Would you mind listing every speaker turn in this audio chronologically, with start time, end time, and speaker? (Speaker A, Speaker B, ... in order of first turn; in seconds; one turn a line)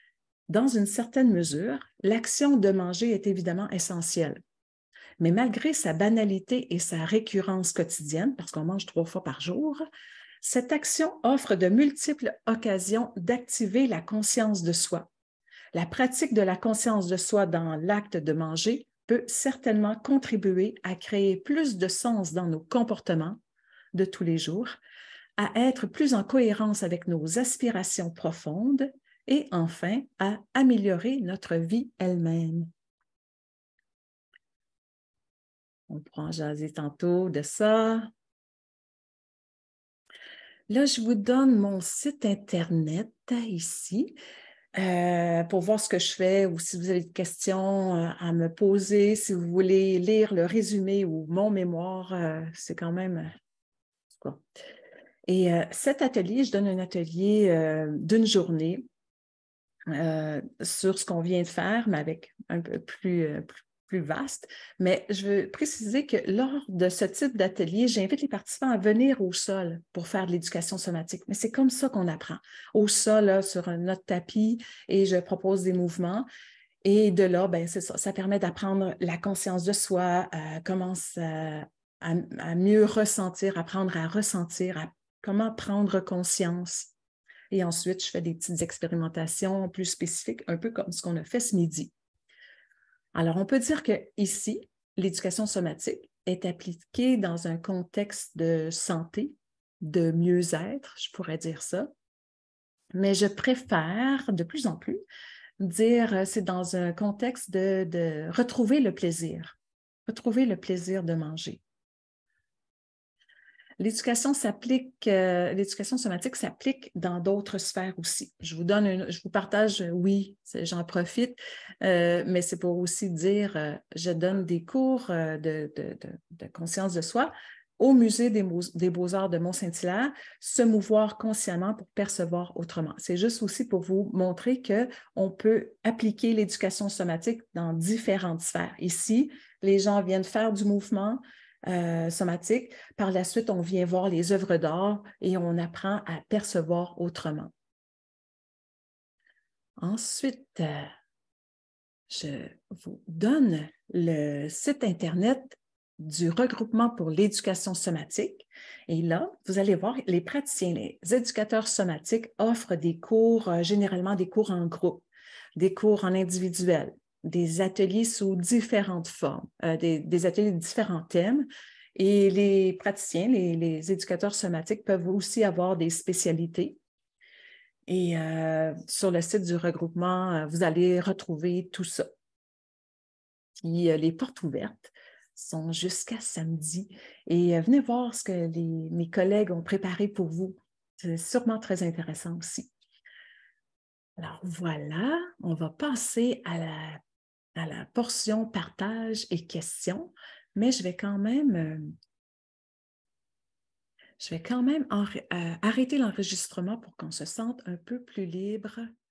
Speaker A: 0.5-4.4
Speaker A: 5.2-9.8
Speaker A: 10.4-15.1
Speaker A: 15.7-23.4
Speaker A: 23.9-24.8
Speaker A: 25.4-32.7
Speaker A: 35.9-38.1
Speaker A: 40.7-44.2
Speaker A: 44.7-53.3
Speaker A: 54.1-54.4
Speaker A: 55.3-58.8
Speaker A: 59.9-76.3
Speaker A: 76.8-86.9
Speaker A: 87.5-91.9
Speaker A: 93.1-101.9
Speaker A: 102.9-105.0
Speaker A: 105.6-111.6
Speaker A: 113.8-147.5
Speaker A: 149.8-150.9
Speaker A: 152.1-165.1
Speaker A: 165.6-176.8
Speaker A: 177.9-182.1
Speaker A: 183.6-192.7
Speaker A: 194.2-197.0
Speaker A: 197.5-201.9
Speaker A: 204.2-208.9